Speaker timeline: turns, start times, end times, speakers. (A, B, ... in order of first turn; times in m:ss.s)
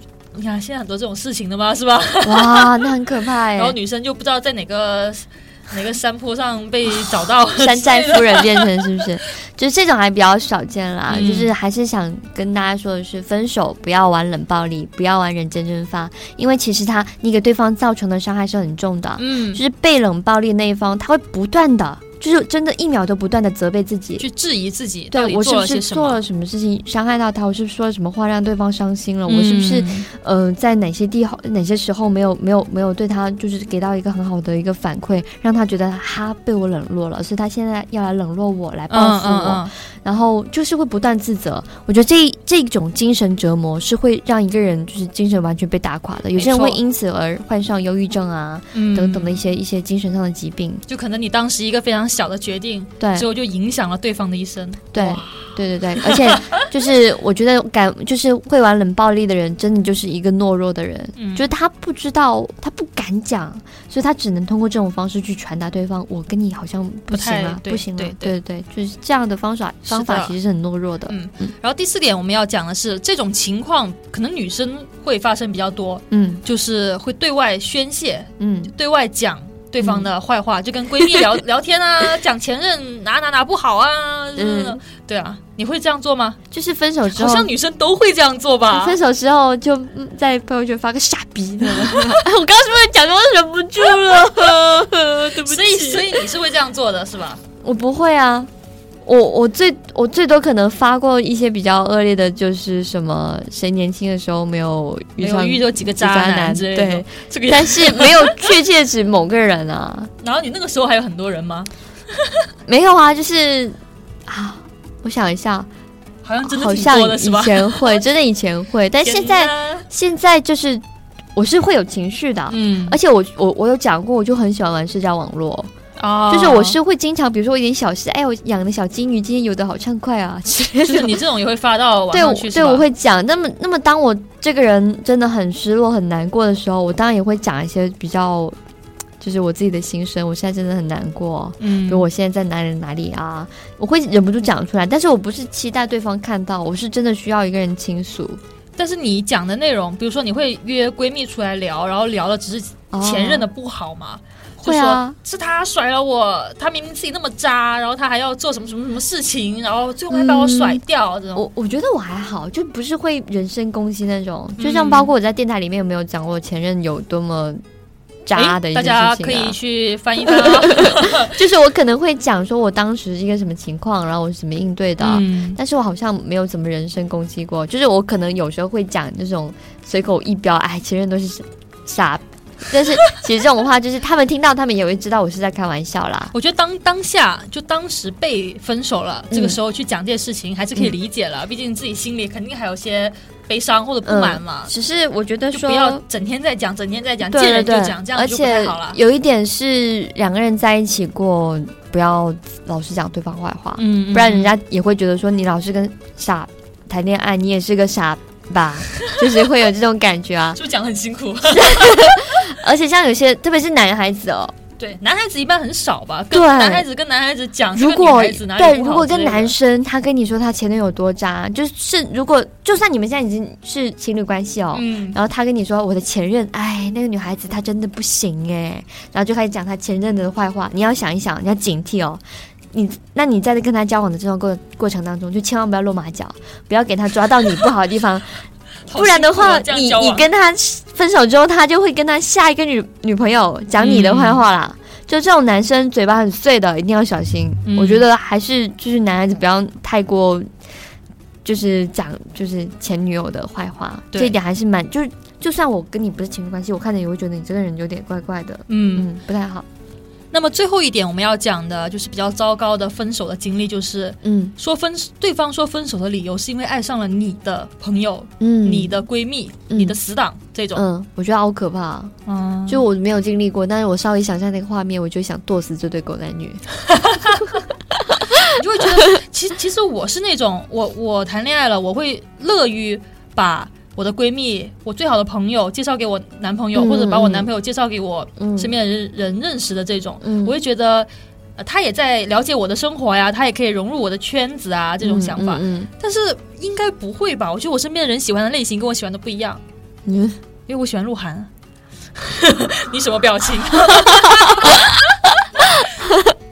0:00.3-0:03.0 A
0:02.2-0:03.8 B
0:03.5-0:08.8 A
0:07.1-0:24.3 B
0:11.1-0:11.5 A
0:19.2-0:19.6 A
0:24.2-0:26.2 A
0:25.1-0:50.8 B
0:29.3-0:30.1 A
0:38.9-0:39.7 A
0:46.3-0:46.8 A
0:48.7-0:49.4 A
0:50.9-0:56.6 A
0:53.0-0:53.3 B
0:54.9-1:11.5 B
1:01.2-1:01.5 A
1:07.1-1:08.4 A
1:09.9-1:10.3 A
1:11.1-1:26.4 A
1:16.1-1:16.4 B
1:18.4-1:18.7 B
1:19.8-1:20.1 B
1:24.4-1:24.8 B
1:26.5-1:27.5 B
1:27.1-1:29.0 A
1:28.7-1:36.3 B
1:31.6-1:32.2 A
1:35.3-1:37.4 A
1:37.6-1:38.5 B
1:39.0-1:50.1 B
1:45.2-1:48.5 A
1:50.2-1:52.4 A
1:52.7-1:55.7 B
1:56.2-1:58.0 A
1:56.4-2:00.8 B
1:59.0-1:59.8 A
2:01.3-2:05.7 B
2:02.5-2:03.0 A
2:06.0-2:06.8 A
2:06.3-2:11.2 B
2:10.8-2:12.8 A
2:12.1-2:18.5 B
2:19.2-2:28.4 B
2:21.6-2:22.0 A
2:28.8-2:41.4 A
2:32.9-2:33.5 B
2:34.6-2:35.2 B
2:40.1-2:40.8 B
2:41.3-2:47.6 B
2:44.6-2:45.1 A
2:48.2-2:49.6 B
2:48.3-2:51.3 A
2:50.2-3:06.3 B
2:55.0-2:55.6 A
3:06.3-3:14.7 A
3:09.3-3:09.6 B
3:14.0-3:16.0 B
3:15.5-3:19.0 A
3:17.2-3:30.6 B
3:23.8-3:24.5 A
3:30.5-3:32.2 A
3:31.5-3:34.5 B
3:34.8-3:39.5 A
3:36.3-3:36.8 B
3:37.7-3:52.2 B
3:44.7-3:45.2 A
3:52.7-3:58.4 B
3:58.9-4:00.3 A
3:58.9-4:10.5 B
4:03.8-4:04.4 A
4:07.6-4:08.0 A
4:11.4-4:19.6 B
4:18.7-4:19.1 A
4:20.3-4:30.8 A
4:24.2-4:24.5 B
4:28.4-4:29.0 B
4:29.7-4:30.0 B
4:30.7-4:32.1 B
4:32.3-4:32.8 A
4:32.7-4:36.6 B
4:36.9-4:37.6 A
4:38.4-4:59.6 A
4:46.7-4:47.5 B
4:48.4-4:48.7 B
4:50.2-4:50.5 B
4:55.0-4:55.9 B
5:00.0-5:00.4 B
5:00.7-5:01.5 A
5:02.2-5:04.8 A
5:03.9-5:04.8 B
5:06.0-5:06.3 B